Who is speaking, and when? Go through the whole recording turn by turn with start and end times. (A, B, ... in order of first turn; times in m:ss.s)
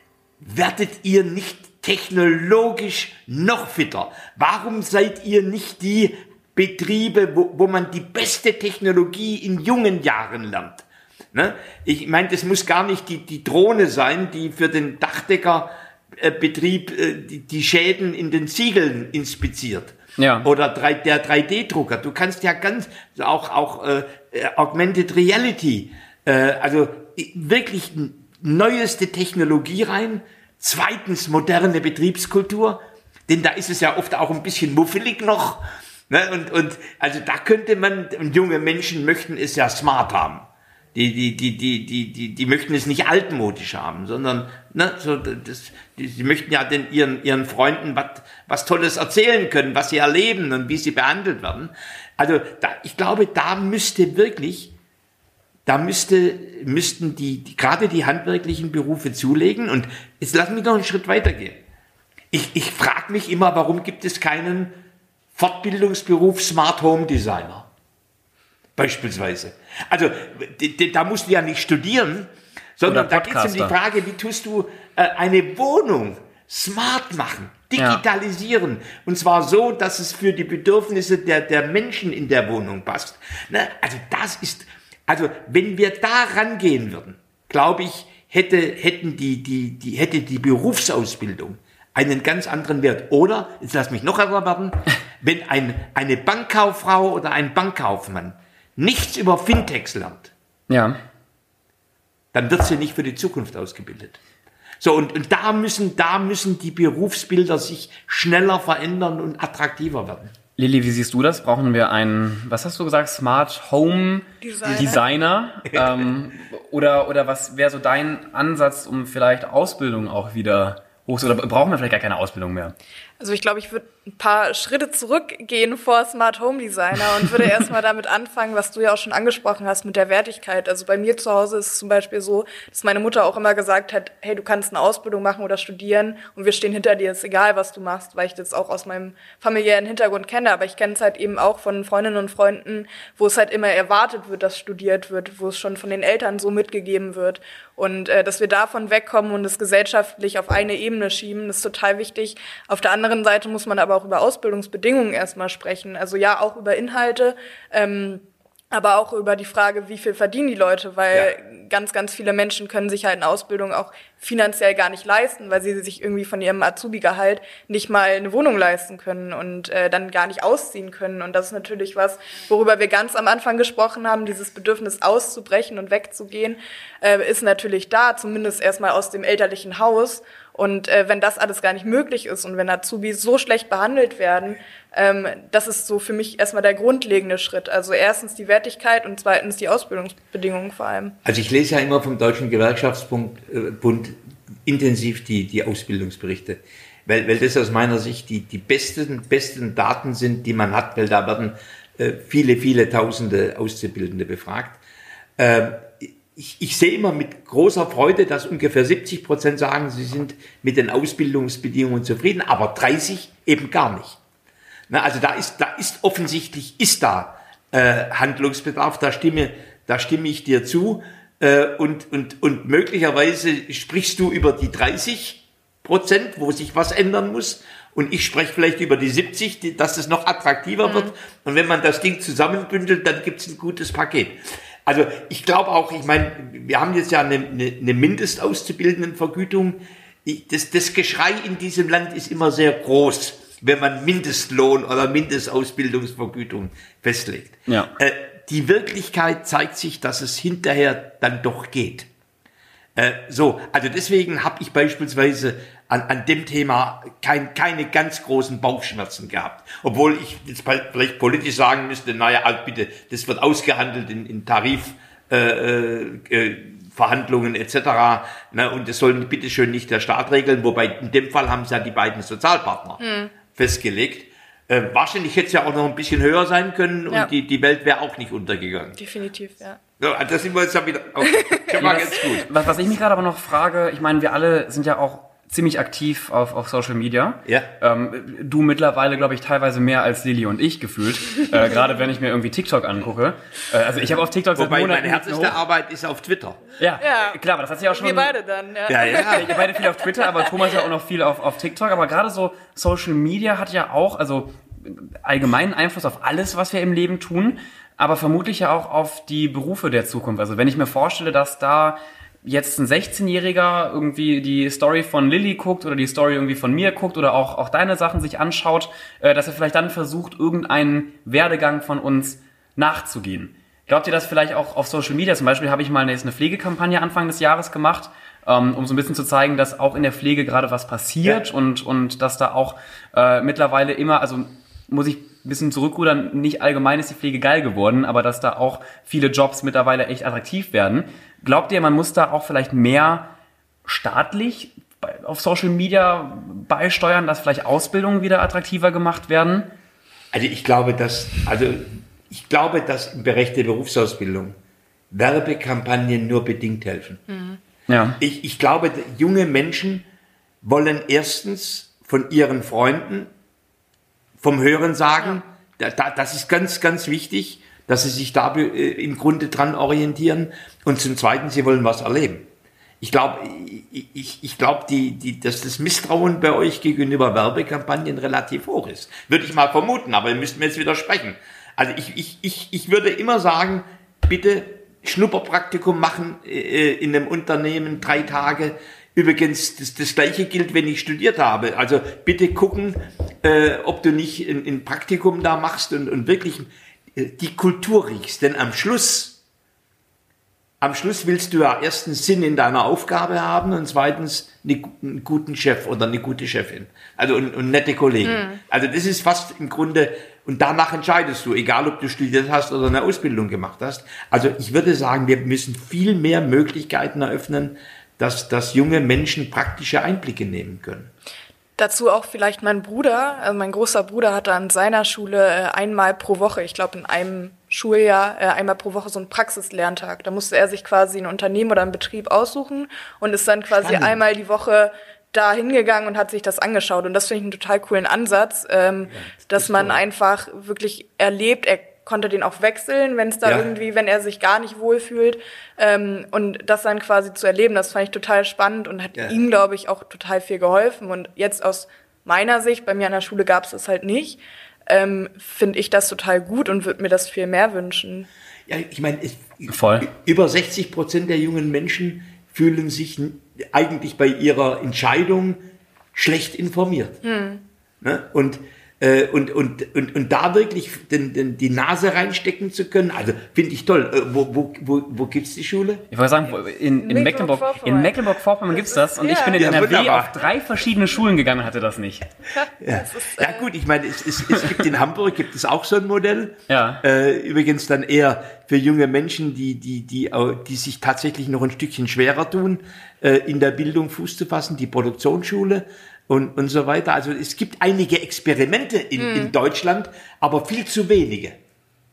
0:00.4-0:54.7 A
0:20.2-0:20.5 B
0:55.6-1:01.6 A
1:02.3-1:04.7 A
1:05.3-1:07.7 A
1:08.8-1:40.3 A
1:12.9-1:13.7 B
1:17.8-1:18.0 B
1:40.7-1:41.0 B
1:42.3-1:44.2 A
1:44.8-1:50.3 A
1:50.6-2:02.7 B
1:54.4-1:55.0 C
1:55.7-1:56.1 A
2:03.2-3:11.2 C
3:11.2-3:24.8 A
3:25.4-3:34.2 A
3:34.9-4:12.1 A
3:50.8-3:51.1 C
4:13.0-4:39.0 A
4:33.0-4:33.3 C
4:39.0-4:39.8 C
4:40.0-4:42.5 A
4:41.3-4:41.6 C
4:41.8-4:55.6 B
4:54.5-4:56.6 A
4:56.8-4:58.3 B
4:57.0-4:57.4 C
4:57.9-5:00.5 C
4:58.9-4:59.5 A
4:59.1-5:43.3 B
5:43.8-5:49.7 B
5:50.3-5:54.6 A
5:55.1-5:57.2 A
5:57.3-5:57.6 C
5:57.9-5:58.2 B
5:58.2-6:00.0 A
6:00.6-6:03.3 A
6:04.4-6:12.5 A
6:13.0-6:39.4 A
6:40.8-7:01.1 A
6:48.2-6:48.6 C
7:01.8-7:38.3 C
7:13.8-7:14.2 A
7:19.1-7:20.0 A
7:38.7-7:45.6 A
7:39.7-7:40.1 B
7:46.1-7:47.2 A
7:47.2-7:47.6 C
7:48.0-7:56.0 A
7:56.1-8:02.2 B
7:57.0-7:58.2 C
7:58.7-7:59.6 C
7:59.5-8:00.3 A
8:02.5-8:03.7 C
8:02.8-8:21.6 A
8:06.7-8:07.0 B
8:19.2-8:19.5 C